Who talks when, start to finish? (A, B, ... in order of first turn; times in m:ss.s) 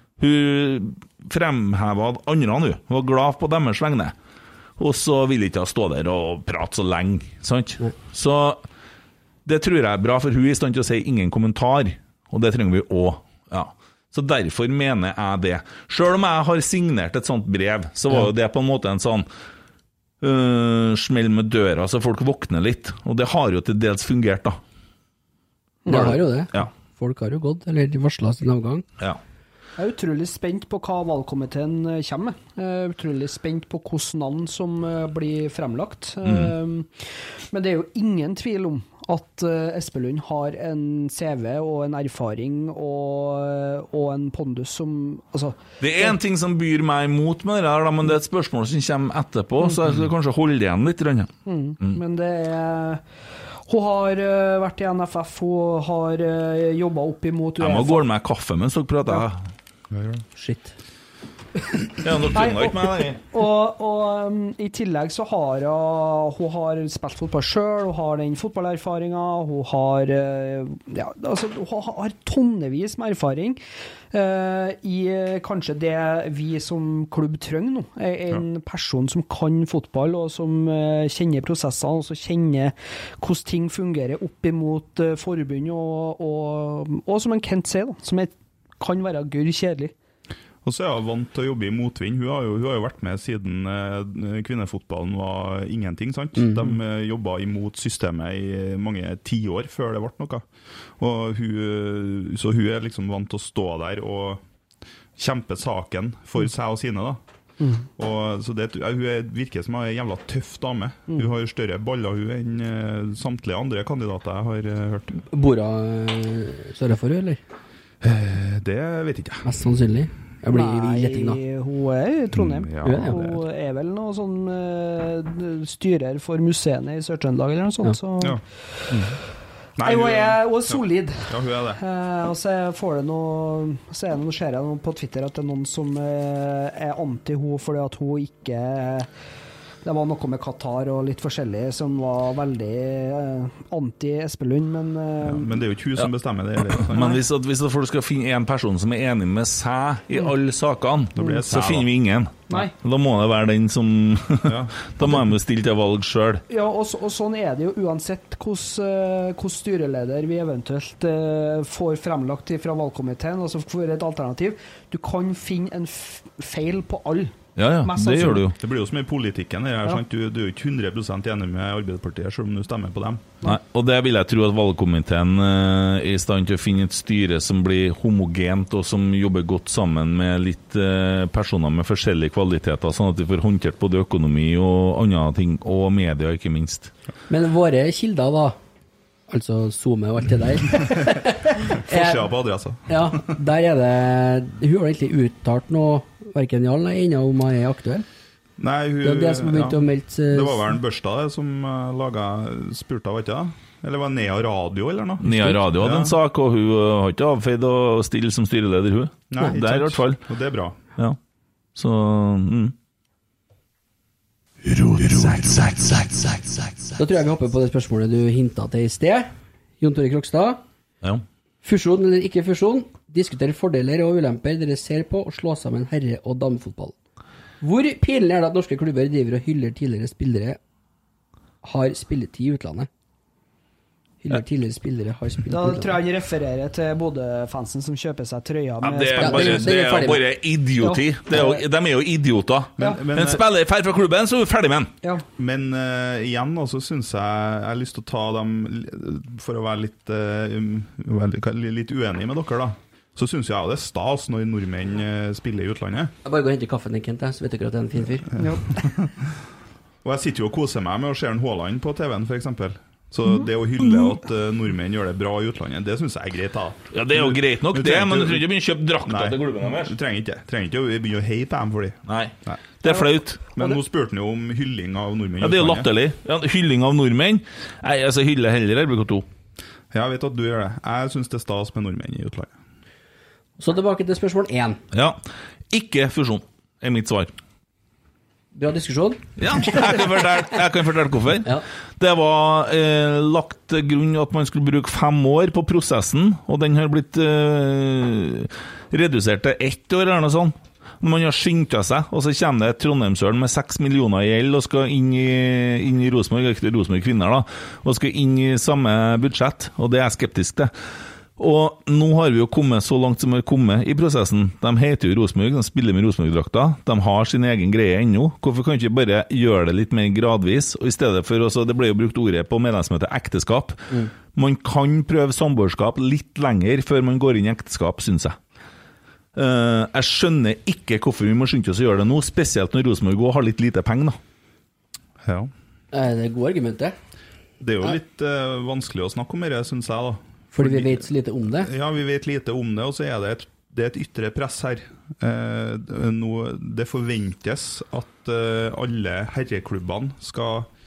0:00.2-0:04.1 A
0:04.8-0:08.6 A
0:09.4-0:19.3 A
0:20.2-0:24.6 A
0:25.9-0:26.2 B
0:25.9-0:28.8 C
0:25.9-0:26.7 A
0:29.8-0:46.2 B
0:36.2-0:36.5 A
0:45.8-0:52.0 A
0:51.5-0:53.0 B
0:53.7-0:58.1 B
0:57.6-0:59.4 A
0:59.9-1:00.2 D
1:00.4-1:00.7 C
1:02.0-1:03.2 A
1:02.3-1:13.6 B
1:14.1-1:29.9 B
1:30.6-1:40.4 D
1:36.4-1:36.7 C
1:41.0-1:44.4 D
1:45.2-1:47.2 D
1:47.6-1:47.9 B
1:48.0-1:55.2 D
1:55.3-1:57.4 C
1:58.0-1:59.5 D
1:59.4-2:01.4 C
2:00.5-2:09.1 B
2:02.3-2:03.4 D
2:02.8-2:03.2 C
2:08.2-2:09.2 D
2:09.8-2:11.8 D
2:09.8-2:19.1 B
2:19.8-2:25.6 B
2:25.2-2:27.2 D
2:26.7-2:36.4 A
2:31.2-2:31.9 D
2:34.4-2:34.8 D
2:36.5-2:48.5 B
2:47.6-2:48.6 A
2:48.6-2:53.3 D
2:53.4-3:06.9 A
3:07.3-3:08.6 C
3:09.3-3:12.3 C
3:11.7-3:13.3 D
3:12.9-3:18.1 C
3:18.6-3:26.1 D
3:19.0-3:20.7 C
3:25.2-3:30.2 A
3:25.2-3:25.6 C
3:29.3-3:30.8 D
3:31.8-3:32.8 A
3:34.7-3:36.1 C
3:36.9-3:40.6 C
3:41.6-3:47.0 C
3:47.6-3:50.6 C
3:51.6-3:52.9 C
3:54.2-3:56.0 C
3:55.5-3:59.8 B
3:58.8-4:04.9 A
3:59.2-4:00.2 C
4:00.8-4:01.6 B
4:02.8-4:03.5 D
4:05.4-4:16.1 D
4:16.2-4:18.3 C
4:18.4-4:19.2 D
4:18.4-4:18.9 B
4:20.0-4:28.5 D
4:26.9-4:30.0 A
4:29.1-4:32.6 D
4:32.1-4:33.4 A
4:32.8-4:33.8 B
4:33.6-4:35.9 D
4:35.4-4:39.3 A
4:39.9-4:42.5 D
4:43.6-4:44.8 C
4:44.9-4:47.3 A
4:48.5-4:50.0 C
4:49.4-5:10.7 A
5:11.4-5:28.4 A
5:29.4-5:34.2 A
5:35.2-5:35.5 D
5:35.9-5:36.9 C
5:37.6-5:41.1 D
5:40.5-5:41.7 C
5:41.6-5:50.7 D